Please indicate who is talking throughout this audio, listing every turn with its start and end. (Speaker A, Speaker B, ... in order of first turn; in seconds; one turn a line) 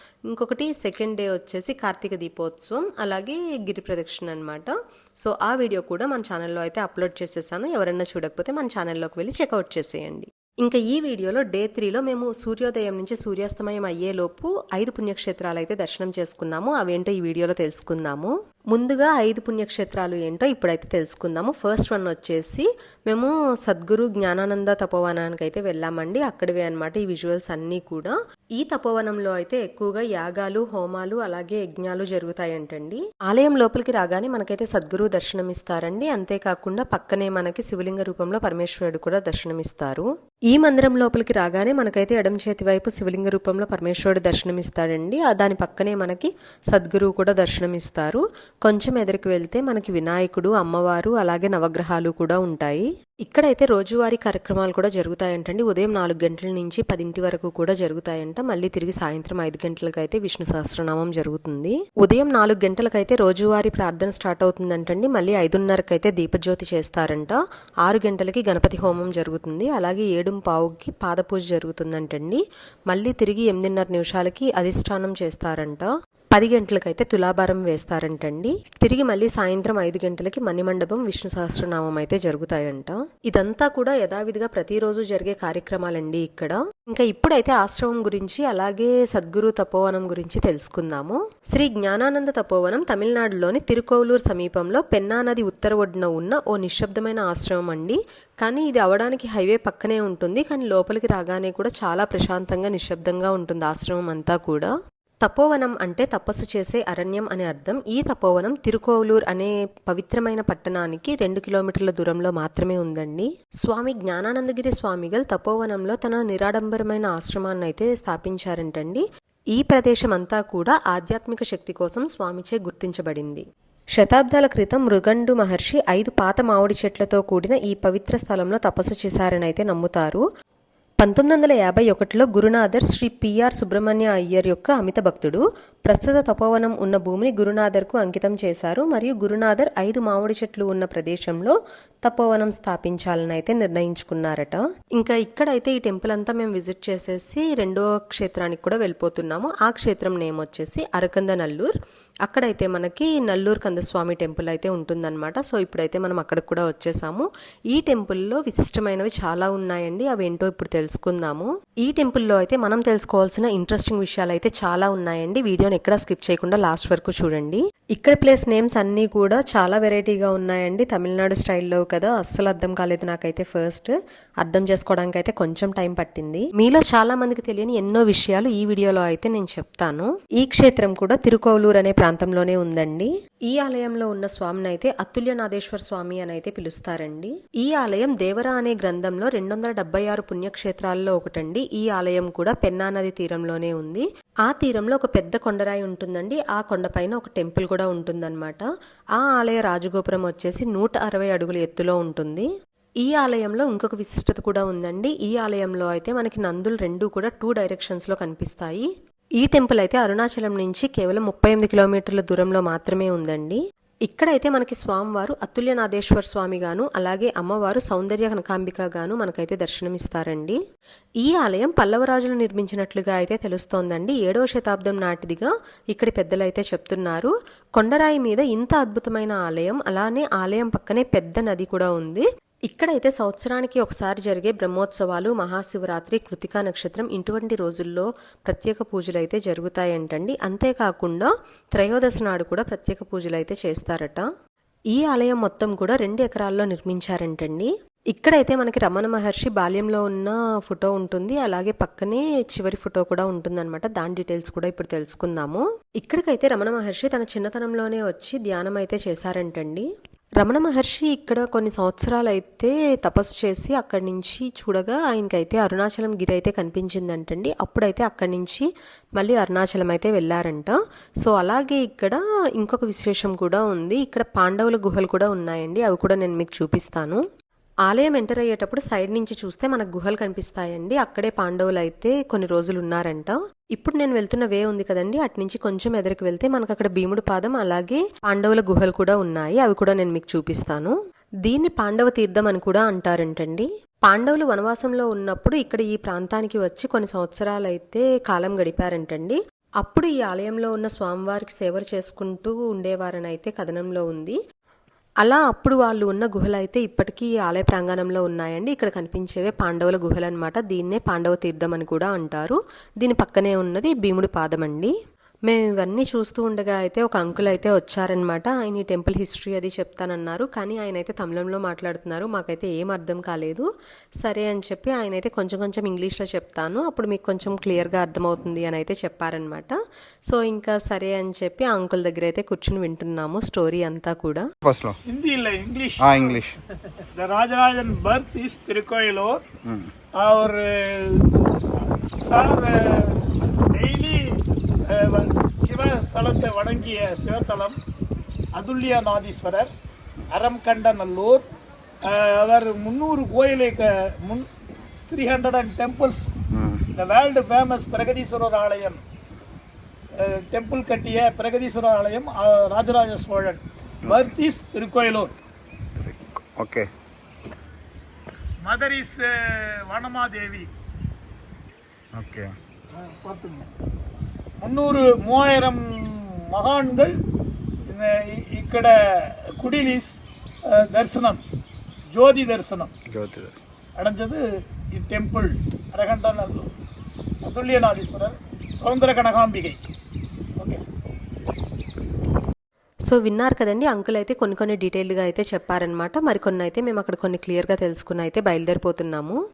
Speaker A: 0.3-104.7
Speaker A: 105.2-123.4
Speaker A: 124.0-130.2
Speaker A: 131.0-141.5
Speaker A: 142.1-151.7
Speaker A: 152.3-202.5
Speaker A: 203.0-208.9
Speaker A: 209.4-220.6
Speaker A: 221.2-244.3
Speaker A: 244.9-259.9
Speaker A: 260.4-268.7
Speaker A: 269.2-277.2
Speaker A: 277.9-304.4
Speaker A: 305.2-314.9
Speaker A: 315.5-323.7
Speaker A: 324.2-329.8
Speaker A: 330.3-334.5
Speaker B: 334.6-335.0
Speaker C: 335.1-336.4
Speaker B: 336.0-336.6
Speaker C: 337.2-339.4
Speaker B: 339.6-339.9
Speaker C: 340.2-341.5
Speaker C: 342.1-347.8
Speaker C: 348.6-349.7
Speaker C: 350.3-351.4
Speaker C: 352.0-354.5
Speaker C: 355.1-356.3
Speaker B: 356.5-356.8
Speaker C: 357.0-359.0
Speaker C: 360.2-365.3
Speaker B: 366.0-366.9
Speaker C: 368.6-370.7
Speaker B: 372.2-372.5
Speaker C: 372.9-373.7
Speaker C: 374.6-377.2
Speaker C: 377.9-380.2
Speaker C: 380.7-381.4
Speaker C: 382.1-382.9
Speaker B: 383.1-383.6
Speaker C: 384.0-386.7
Speaker C: 387.4-389.8
Speaker C: 390.6-390.9
Speaker A: 393.1-399.4